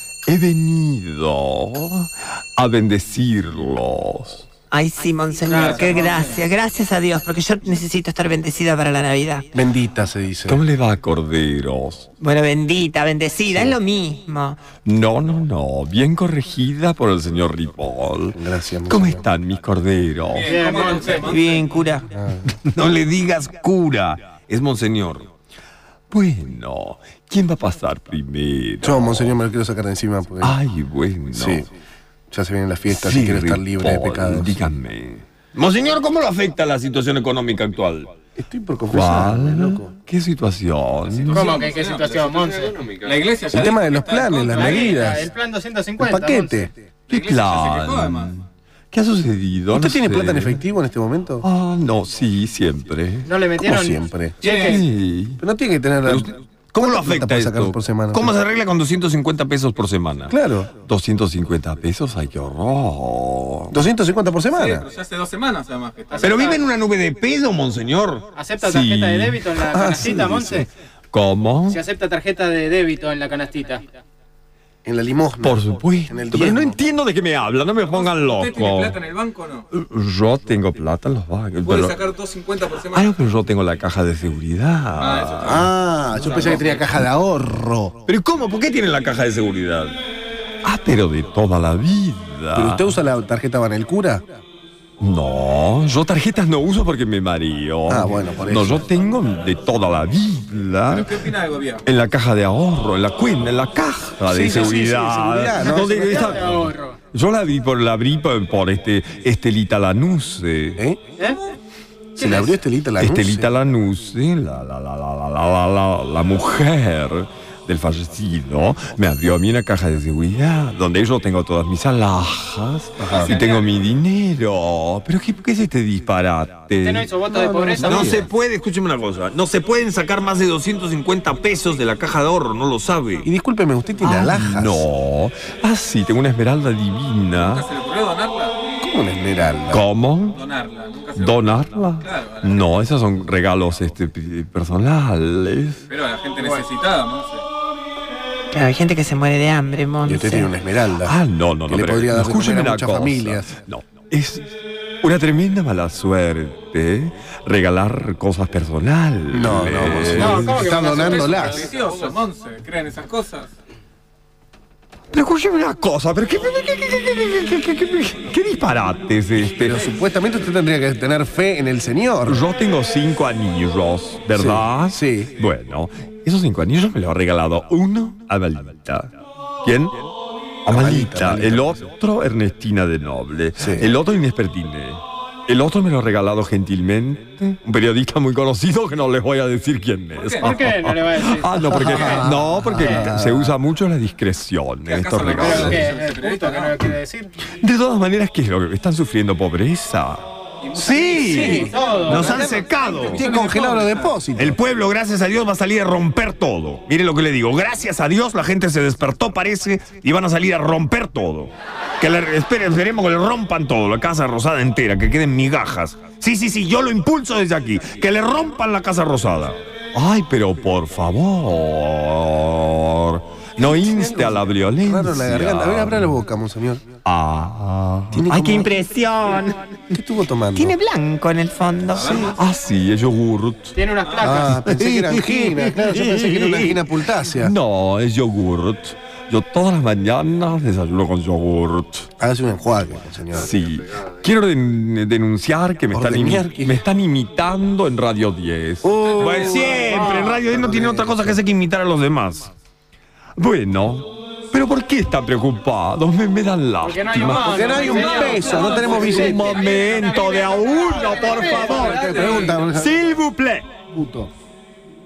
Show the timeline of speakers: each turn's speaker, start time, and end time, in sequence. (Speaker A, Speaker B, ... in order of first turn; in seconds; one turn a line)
Speaker A: 0.3-4.5
Speaker B: 4.7-9.4
Speaker C: 5.5-6.4
Speaker D: 5.5-6.4
Speaker E: 9.5-10.6
Speaker A: 10.4-12.1
Speaker B: 12.2-14.6
Speaker A: 14.8-20.6
Speaker E: 18.4-19.2
Speaker D: 20.3-21.8
Speaker C: 20.4-21.4
Speaker B: 21.2-22.1
Speaker E: 22.1-22.4
Speaker A: 22.5-25.3
Speaker A: 26.1-29.3
Speaker E: 28.8-30.6
Speaker A: 30.4-31.7
Speaker E: 31.3-31.7
Speaker E: 32.3-34.6
Speaker A: 32.9-38.1
Speaker E: 38.4-39.9
Speaker A: 38.9-41.6
Speaker D: 41.1-45.3
Speaker C: 41.3-42.9
Speaker E: 43.5-45.3
Speaker C: 44.5-46.7
Speaker E: 46.0-46.7
Speaker D: 47.1-48.4
Speaker A: 47.1-50.6
Speaker E: 49.7-51.5
Speaker A: 51.4-53.3
Speaker C: 53.2-54.8
Speaker E: 53.6-54.4
Speaker D: 54.4-54.8
Speaker A: 54.4-55.4
Speaker E: 55.4-58.3
Speaker A: 56.0-63.8
Speaker E: 60.3-60.7
Speaker E: 63.7-64.9
Speaker D: 64.5-66.6
Speaker C: 66.1-66.7
Speaker A: 66.2-71.8
Speaker C: 68.3-70.7
Speaker E: 69.6-70.5
Speaker C: 71.7-73.9
Speaker E: 74.8-76.8
Speaker A: 75.4-79.0
Speaker D: 77.9-79.7
Speaker A: 79.7-82.0
Speaker D: 81.6-83.1
Speaker A: 82.9-85.7
Speaker D: 85.0-86.9
Speaker E: 85.4-88.0
Speaker A: 88.1-90.0
Speaker A: 90.6-92.8
Speaker E: 92.5-94.3
Speaker A: 95.0-101.1
Speaker E: 97.9-98.8
Speaker D: 100.9-101.8
Speaker A: 101.8-110.8
Speaker E: 104.3-106.4
Speaker C: 105.7-107.0
Speaker E: 112.2-113.5
Speaker C: 112.2-112.5
Speaker A: 113.0-127.1
Speaker E: 123.0-123.3
Speaker D: 123.1-123.7
Speaker C: 126.8-128.3
Speaker E: 127.3-128.3
Speaker A: 127.8-133.3
Speaker E: 133.2-134.8
Speaker A: 134.0-137.7
Speaker D: 137.4-138.6
Speaker E: 138.8-139.8
Speaker A: 139.7-140.4
Speaker D: 140.3-142.8
Speaker A: 141.2-145.8
Speaker D: 145.9-147.4
Speaker B: 148.5-150.5
Speaker E: 150.0-151.2
Speaker A: 151.0-154.5
Speaker E: 151.7-153.5
Speaker A: 155.0-160.7
Speaker E: 159.3-161.7
Speaker C: 160.1-161.7
Speaker D: 160.8-163.5
Speaker A: 165.1-169.8
Speaker E: 169.6-172.4
Speaker A: 172.3-180.1
Speaker E: 174.3-175.3
Speaker A: 180.6-195.8
Speaker E: 180.7-181.8
Speaker E: 183.6-183.9
Speaker D: 190.1-190.6
Speaker C: 190.4-192.3
Speaker E: 191.7-193.5
Speaker D: 194.8-196.8
Speaker C: 195.2-197.3
Speaker A: 197.6-203.3
Speaker D: 200.6-204.1
Speaker E: 201.2-204.6
Speaker C: 201.5-202.4
Speaker A: 204.4-226.1
Speaker E: 223.6-226.8
Speaker A: 227.0-228.5
Speaker E: 228.1-228.7
Speaker B: 228.4-229.6
Speaker E: 229.9-230.8
Speaker B: 230.5-232.2
Speaker D: 231.9-232.4
Speaker A: 231.9-233.8
Speaker C: 233.8-234.6
Speaker D: 234.0-234.4
Speaker E: 234.2-237.5
Speaker A: 234.4-242.1
Speaker E: 242.2-243.5
Speaker A: 243.3-252.5
Speaker E: 245.9-246.8
Speaker E: 248.8-251.4
Speaker D: 249.2-249.9
Speaker A: 253.4-263.7
Speaker C: 256.8-259.7
Speaker E: 257.4-259.6
Speaker D: 257.7-262.6
Speaker E: 261.2-263.0
Speaker E: 263.9-264.3